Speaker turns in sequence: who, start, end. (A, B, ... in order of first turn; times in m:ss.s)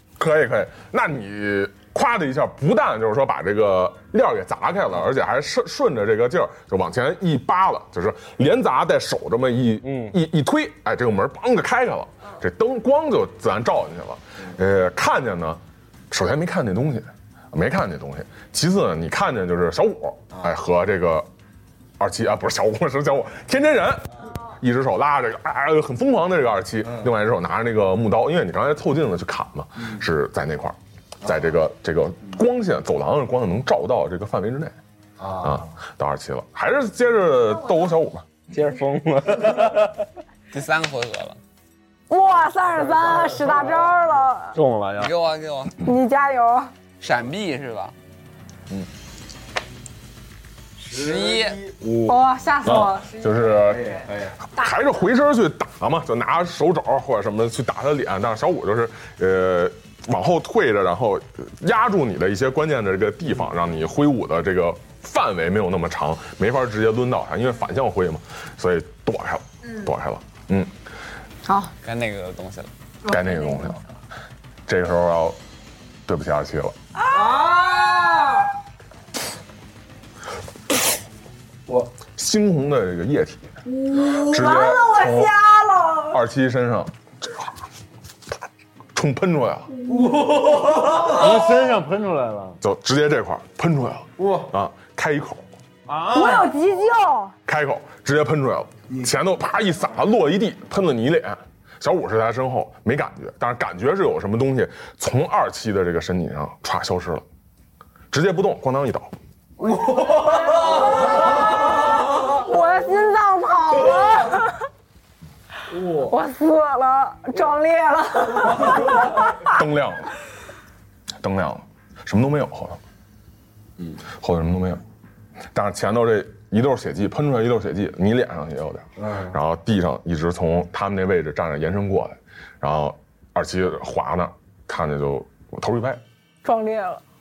0:00.2-0:21.3 A
0:09.8-0:10.2 B
0:22.0-0:38.3 A
0:38.5-0:40.0 B
0:40.5-0:41.4 C
0:42.1-0:44.6 D
0:44.6-0:45.1 B
0:45.0-0:45.8 C
0:45.8-0:46.7 D
0:47.0-0:47.9 C
0:50.8-0:51.7 C
0:51.6-0:52.1 B
0:52.1-0:53.2 D
0:52.6-1:10.7 A
1:11.5-1:11.7 D
1:11.8-1:12.7 C
1:13.1-1:13.8 A
1:14.7-1:15.4 A
1:16.1-1:16.8 A
1:17.1-1:18.5 D
1:22.1-1:23.5 A
1:23.9-1:26.2 D
1:24.2-1:25.4 A
1:26.1-1:27.5 A
1:29.0-1:29.7 A
1:30.9-1:32.6 E
1:32.6-1:35.4 A
1:35.9-1:36.5 E
1:36.1-1:37.4 D
1:37.5-1:47.2 A
1:48.1-1:49.1 A
1:50.1-1:51.4 D
1:52.2-1:54.6 D
1:55.8-1:59.2 D
1:59.4-2:00.1 A
2:01.2-2:02.8 A
2:04.2-2:04.8 A
2:05.5-2:16.0 A
2:16.4-2:17.0 D